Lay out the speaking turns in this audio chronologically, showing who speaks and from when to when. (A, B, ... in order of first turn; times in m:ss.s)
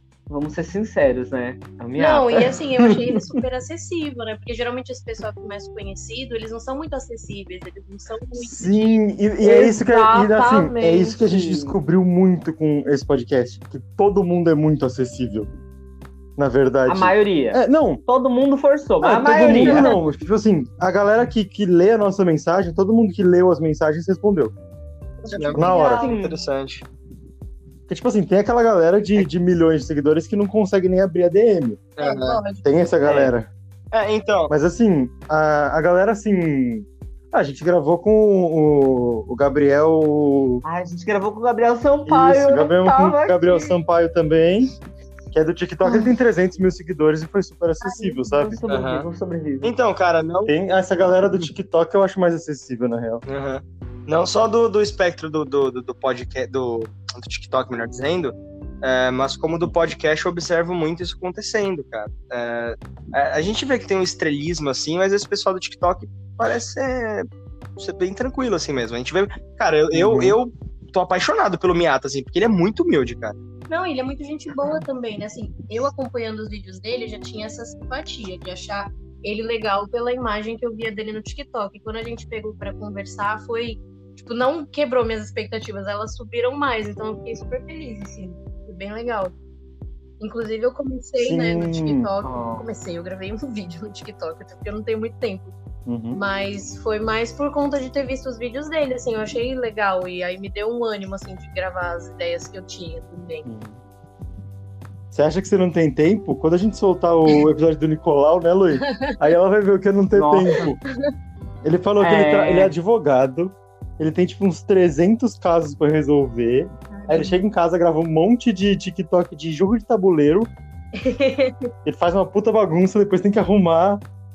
0:00.3-0:02.6 A
0:02.0-0:09.0 B
0:08.4-0:15.5 C
0:09.4-0:11.8 A
0:16.4-0:18.0 C
0:16.9-0:20.0 A
0:19.0-0:24.6 C
0:19.5-0:20.0 B
0:25.2-0:26.1 B
0:25.3-0:26.8 D
0:25.5-0:26.1 C
0:25.7-0:26.4 A
0:27.9-0:31.8 C
0:32.0-0:32.4 D
0:32.0-0:32.6 B
0:32.6-0:33.5 C
0:33.0-0:33.3 A
0:33.9-0:34.5 D
0:34.5-0:40.6 C
0:40.6-0:43.8 A
0:42.1-0:44.7 C
0:45.3-0:48.6 C
0:47.8-0:49.8 A
0:48.7-0:49.1 D
0:49.6-0:50.5 D
0:50.5-0:53.2 C
0:53.2-1:07.3 D
1:07.8-1:13.4 D
1:09.9-1:10.4 C
1:13.7-1:29.3 B
1:30.2-1:35.6 B
1:31.2-1:32.1 C
1:32.2-1:32.6 A
1:35.9-1:36.2 C
1:36.1-1:43.5 B
1:43.4-1:43.8 C
1:45.1-1:50.8 C
1:48.8-1:49.2 B
1:50.1-1:50.7 A
1:51.6-2:00.5 C
1:52.0-1:52.8 A
1:56.9-1:57.4 B
2:01.0-2:01.7 B
2:01.8-2:04.0 C